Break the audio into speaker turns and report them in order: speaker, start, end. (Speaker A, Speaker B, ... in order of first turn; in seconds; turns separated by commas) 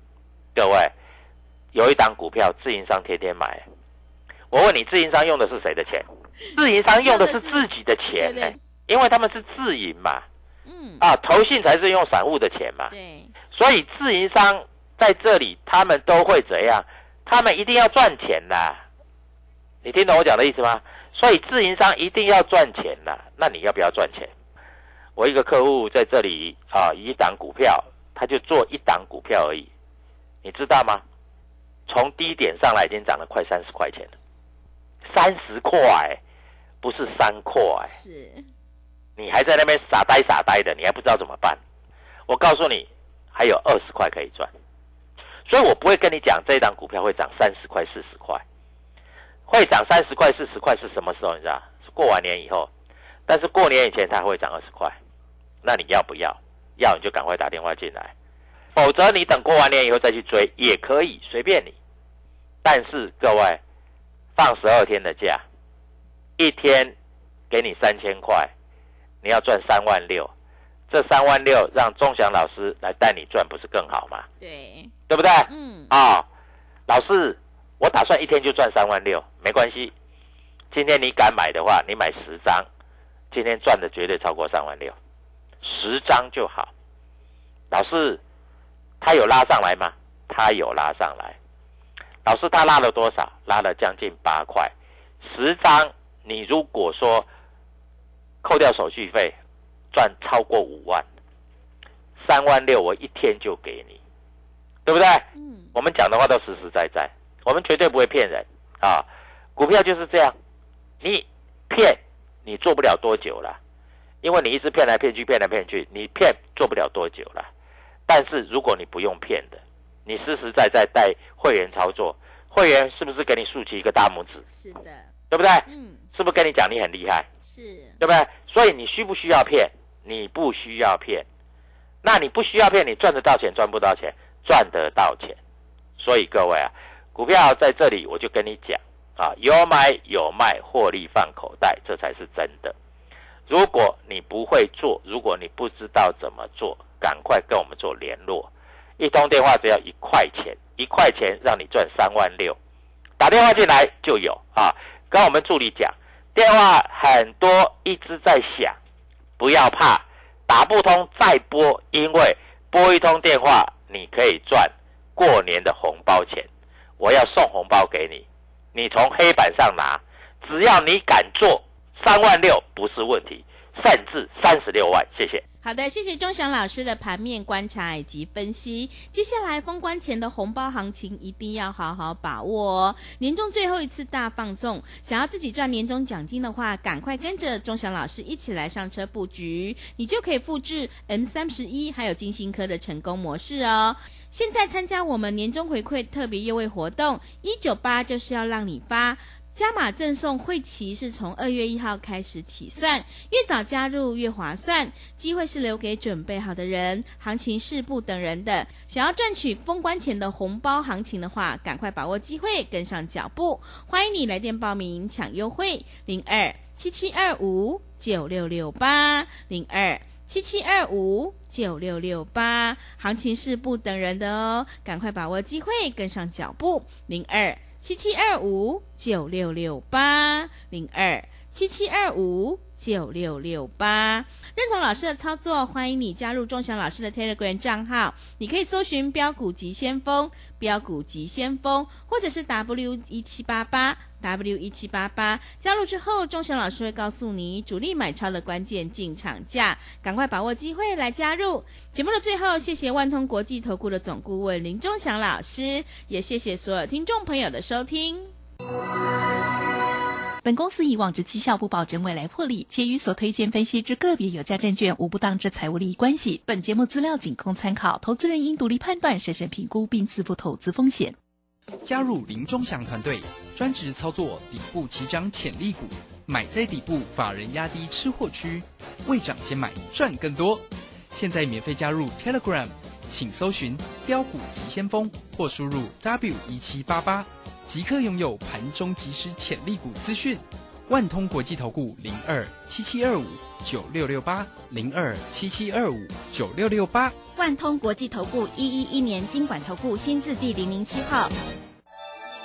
Speaker A: 0.6-0.9, Speaker A: 1.7-3.6, Speaker A: 4.5-6.0, Speaker B: 6.4-7.7, Speaker A: 6.6-10.2, Speaker B: 8.2-8.6, Speaker B: 10.7-11.0, Speaker A: 11.0-12.9, Speaker B: 12.9-13.3, Speaker A: 13.5-18.8, Speaker A: 19.8-24.3, Speaker A: 25.2-29.7, Speaker A: 30.4-31.0, Speaker A: 31.9-34.1, Speaker A: 35.1-36.2, Speaker A: 36.8-37.9, Speaker B: 37.9-38.5, Speaker A: 39.2-41.6, Speaker A: 42.3-44.5, Speaker A: 45.5-48.4, Speaker A: 49.5-52.7, Speaker A: 53.3-54.9, Speaker A: 55.6-58.1, Speaker A: 58.8-61.8, Speaker A: 62.6-63.6, Speaker A: 64.4-65.4, Speaker A: 66.4-66.9, Speaker A: 67.5-68.5, Speaker A: 69.2-70.3, Speaker A: 70.9-74.3, Speaker B: 74.4-74.9, Speaker A: 75.1-76.3, Speaker B: 75.5-75.9, Speaker A: 76.9-79.9, Speaker A: 80.7-82.7, Speaker A: 83.3-85.0, Speaker A: 85.6-86.7, Speaker A: 87.7-88.2, Speaker A: 89.0-91.4, Speaker A: 92.2-97.3, Speaker A: 98.4-99.4, Speaker A: 99.9-101.0, Speaker A: 102.2-104.0, Speaker A: 104.8-110.4, Speaker B: 105.3-105.7, Speaker A: 111.0-113.6, Speaker A: 114.2-117.5, Speaker A: 118.1-124.4, Speaker B: 124.5-125.1, Speaker A: 125.3-127.3, Speaker B: 125.7-126.0, Speaker B: 127.4-128.0, Speaker A: 128.0-131.3, Speaker A: 132.0-135.4, Speaker A: 136.0-142.7, Speaker A: 143.5-152.6, Speaker A: 153.2-158.8, Speaker A: 159.4-166.5, Speaker A: 167.0-175.4, Speaker B: 175.6-258.3, Speaker C: 260.4-271.2, Speaker D: 271.8-297.1, Speaker E: 297.4-301.3